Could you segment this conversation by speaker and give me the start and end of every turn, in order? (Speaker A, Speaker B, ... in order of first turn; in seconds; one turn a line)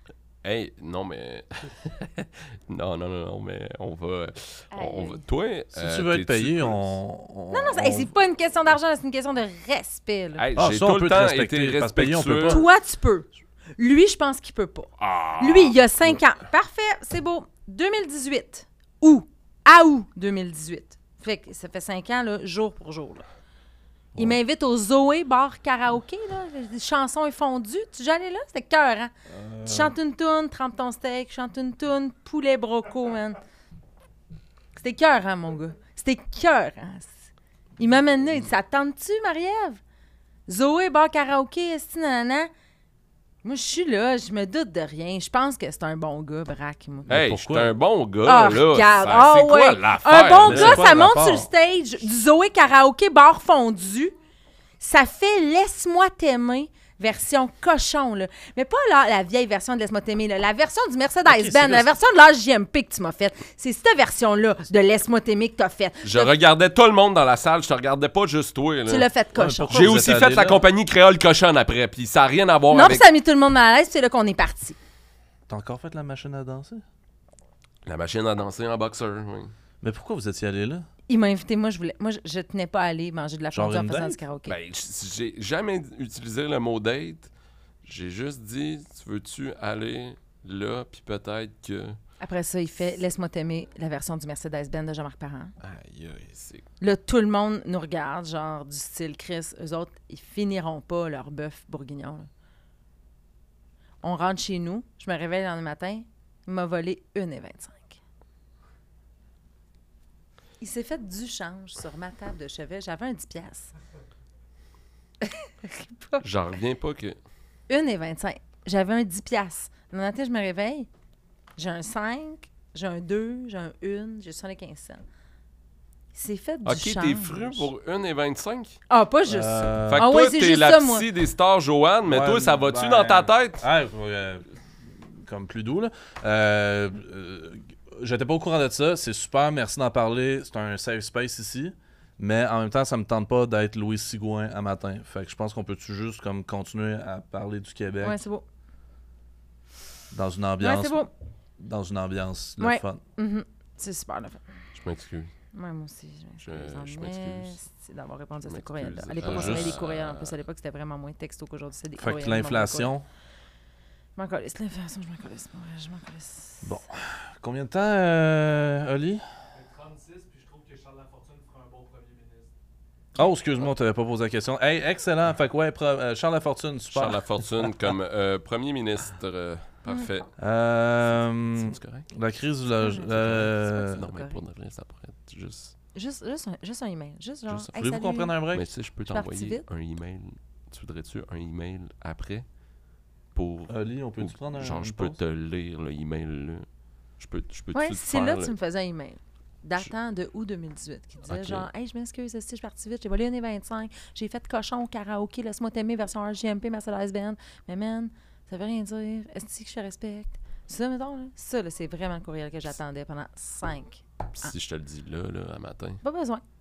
Speaker A: 0.4-7.0
Speaker B: 4.7-5.2
Speaker C: 5.7-8.1
Speaker B: 7.5-10.4
Speaker A: 10.4-12.6
Speaker C: 10.6-12.7
Speaker B: 12.5-23.2
Speaker A: 15.0-15.8
Speaker C: 24.1-24.4
Speaker B: 24.2-29.1
Speaker C: 29.3-29.9
Speaker B: 29.6-33.4
Speaker B: 34.8-37.2
Speaker B: 37.8-39.8
Speaker B: 40.5-42.5
Speaker B: 43.4-47.1
Speaker C: 47.1-47.7
Speaker A: 47.1-50.9
Speaker B: 48.2-54.1
Speaker C: 50.4-51.5
Speaker B: 54.8-66.3
Speaker C: 61.3-61.9
Speaker A: 66.0-69.1
Speaker B: 68.9-69.8
Speaker C: 69.3-70.6
Speaker A: 69.7-73.1
Speaker B: 72.7-74.8
Speaker C: 75.5-76.8
Speaker A: 77.8-79.5
Speaker C: 79.8-80.9
Speaker B: 81.1-84.5
Speaker C: 83.5-84.2
Speaker A: 84.5-87.3
Speaker A: 87.8-92.0
Speaker B: 92.2-95.5
Speaker A: 95.6-96.7
Speaker B: 96.8-102.3
Speaker B: 104.0-108.0
Speaker B: 110.6-113.7
Speaker B: 115.2-116.2
Speaker A: 116.2-117.2
Speaker B: 117.7-120.9
Speaker B: 121.6-125.0
Speaker B: 126.1-127.7
Speaker A: 126.7-128.8
Speaker B: 128.9-131.1
Speaker C: 129.2-130.1
Speaker A: 129.9-133.7
Speaker C: 132.1-148.2
Speaker B: 148.0-148.4
Speaker C: 150.1-151.0
Speaker B: 150.6-151.1
Speaker C: 151.6-153.0
Speaker B: 152.6-154.4
Speaker A: 154.8-155.3
Speaker B: 155.5-162.9
Speaker A: 156.4-157.6
Speaker A: 158.4-160.3
Speaker C: 159.2-159.8
Speaker C: 162.0-163.1
Speaker B: 164.2-166.8
Speaker C: 166.6-169.2
Speaker D: 169.5-172.5
Speaker C: 173.2-177.9
Speaker A: 176.9-180.3
Speaker C: 180.4-184.0
Speaker A: 181.5-182.1
Speaker B: 182.8-184.4
Speaker A: 183.0-185.8
Speaker B: 185.9-188.4
Speaker C: 187.7-188.7
Speaker A: 188.5-192.5
Speaker B: 189.1-189.6
Speaker A: 193.3-196.7
Speaker C: 193.7-195.2
Speaker A: 197.2-198.5
Speaker B: 197.7-214.5
Speaker A: 201.3-201.7
Speaker A: 214.4-216.0
Speaker B: 216.0-216.4